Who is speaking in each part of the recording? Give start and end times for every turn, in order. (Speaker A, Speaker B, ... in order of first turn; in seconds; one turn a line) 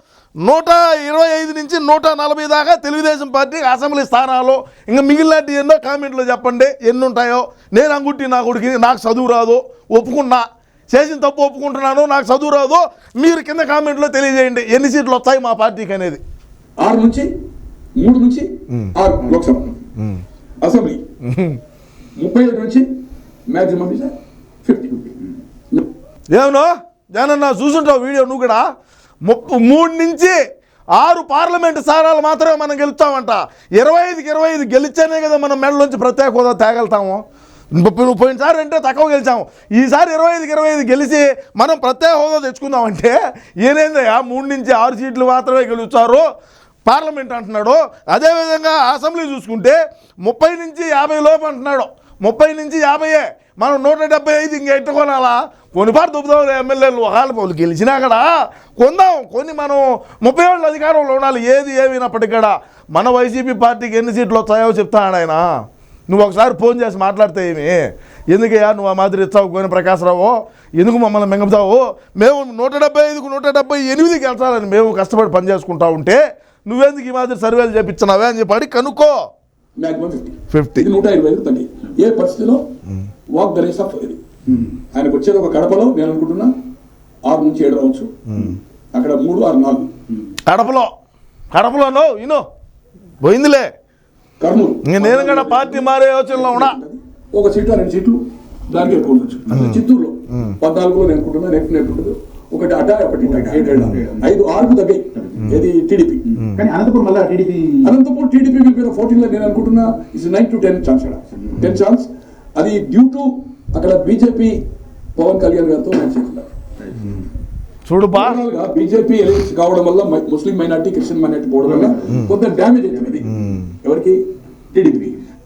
Speaker A: 0.4-16.2
Speaker B: 16.8-17.3
Speaker B: 18.0-19.8
Speaker B: 20.6-21.0
Speaker A: 21.2-21.6
Speaker B: 22.2-22.9
Speaker B: 23.5-25.2
Speaker A: 26.3-28.6
Speaker A: 29.2-30.4
Speaker A: 30.9-37.2
Speaker A: 37.7-46.2
Speaker A: 46.9-65.4
Speaker A: 66.1-79.1
Speaker B: 79.8-82.6
Speaker A: 80.5-80.9
Speaker B: 83.3-84.2
Speaker C: 84.5-84.8
Speaker B: 84.9-86.5
Speaker B: 87.3-88.1
Speaker A: 88.3-88.6
Speaker B: 88.9-89.9
Speaker A: 90.5-90.9
Speaker A: 91.5-92.4
Speaker A: 93.2-93.7
Speaker B: 94.4-106.2
Speaker A: 94.8-96.8
Speaker C: 99.4-99.8
Speaker A: 99.5-99.8
Speaker C: 103.2-104.3
Speaker C: 105.1-105.6
Speaker C: 106.3-108.0
Speaker B: 107.8-114.6
Speaker B: 115.2-116.5
Speaker C: 116.8-117.3
Speaker A: 117.8-118.4
Speaker B: 118.1-123.3
Speaker C: 121.6-122.3
Speaker C: 122.9-123.5
Speaker A: 123.2-123.7
Speaker B: 123.8-124.2
Speaker B: 124.7-125.2